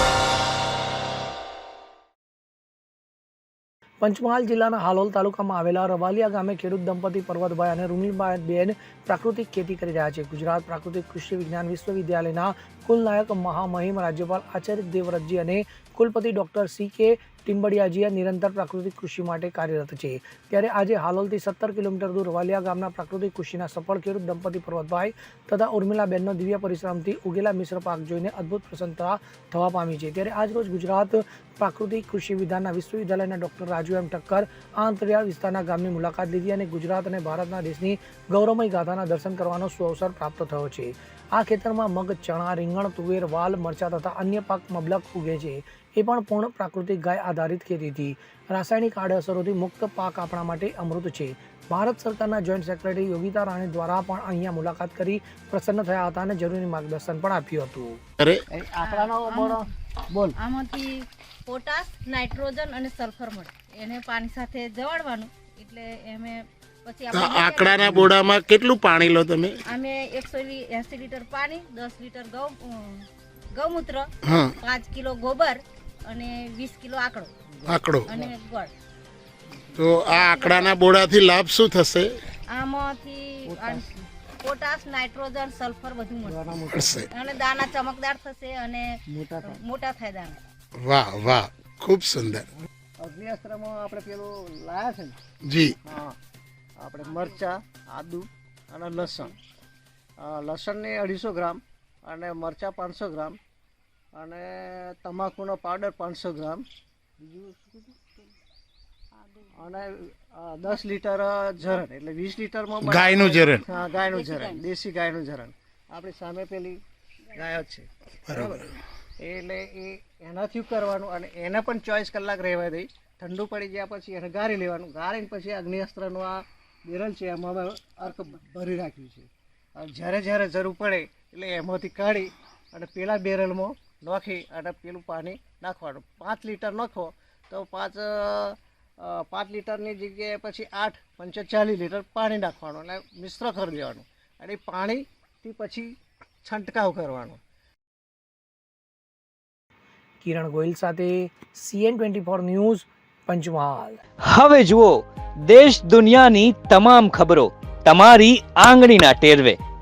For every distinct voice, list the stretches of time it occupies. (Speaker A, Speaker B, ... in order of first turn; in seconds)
Speaker A: 4.0-58.0, 150.2-154.0
Speaker B: 58.5-60.4, 77.6-78.2, 83.5-83.9, 86.2-87.1, 89.1-89.6, 93.0-95.2, 95.8-96.2, 96.8-99.3, 100.2-103.4, 104.1-106.6, 107.2-108.0, 109.5-116.8, 117.3-145.9, 146.4-147.4
Speaker C: 58.8-59.6, 60.4-67.8, 69.7-77.3, 78.0-78.7, 80.1-80.7, 82.5-83.8, 84.4-86.4, 87.1-90.4, 113.7-114.6
Speaker D: 67.1-69.6, 74.2-74.5, 77.7-78.1, 79.8-82.2, 86.7-87.0, 90.8-92.5, 95.4-95.8, 112.8-113.6, 118.3-118.6
Speaker E: 154.3-159.6